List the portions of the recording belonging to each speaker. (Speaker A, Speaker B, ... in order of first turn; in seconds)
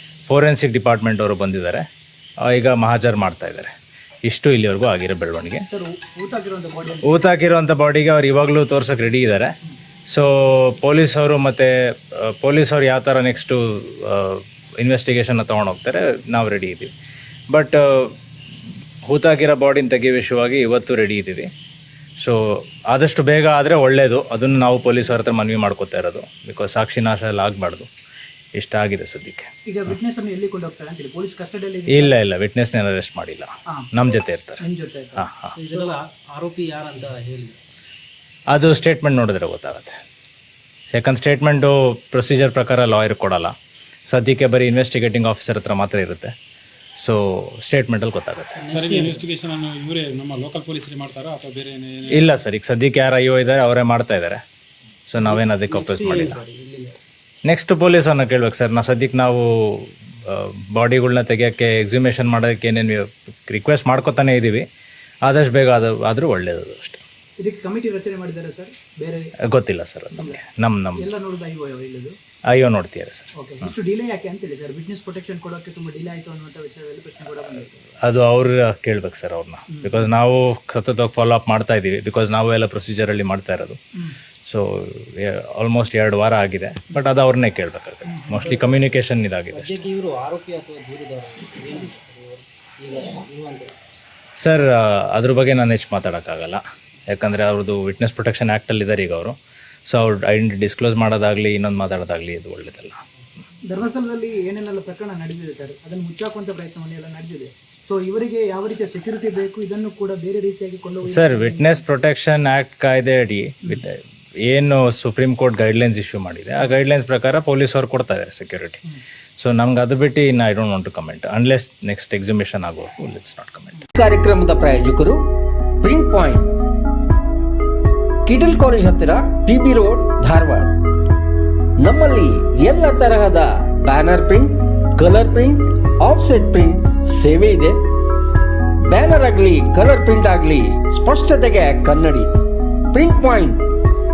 Speaker A: 0.3-1.8, 2.5-3.7, 4.3-5.6, 7.0-9.5, 10.1-11.7, 12.4-16.9, 17.5-18.1, 19.1-21.5, 22.9-27.9, 28.6-29.9, 31.9-34.6, 35.1-35.5, 38.5-39.9, 40.9-43.5, 44.1-46.3, 47.0-48.7, 52.1-54.4, 55.1-56.4, 57.5-64.6, 65.2-67.0, 69.5-71.0, 72.5-73.7, 78.0-83.8, 85.2-89.7, 94.4-99.3, 99.9-103.0, 111.1-114.0, 114.5-118.8, 119.4-123.8
Speaker B: 5.6-7.2, 29.7-32.2, 34.6-36.0, 67.4-69.2, 71.0-72.1, 73.4-77.8, 79.7-80.1, 88.1-88.4, 103.7-111.9
Speaker C: 35.5-37.6, 48.5-49.2, 55.1-57.0, 88.4-88.9, 89.5-93.7
Speaker D: 48.7-52.3
Speaker E: 123.9-125.2, 125.8-126.5, 128.2-130.7, 131.8-137.8, 138.9-142.3, 142.9-143.6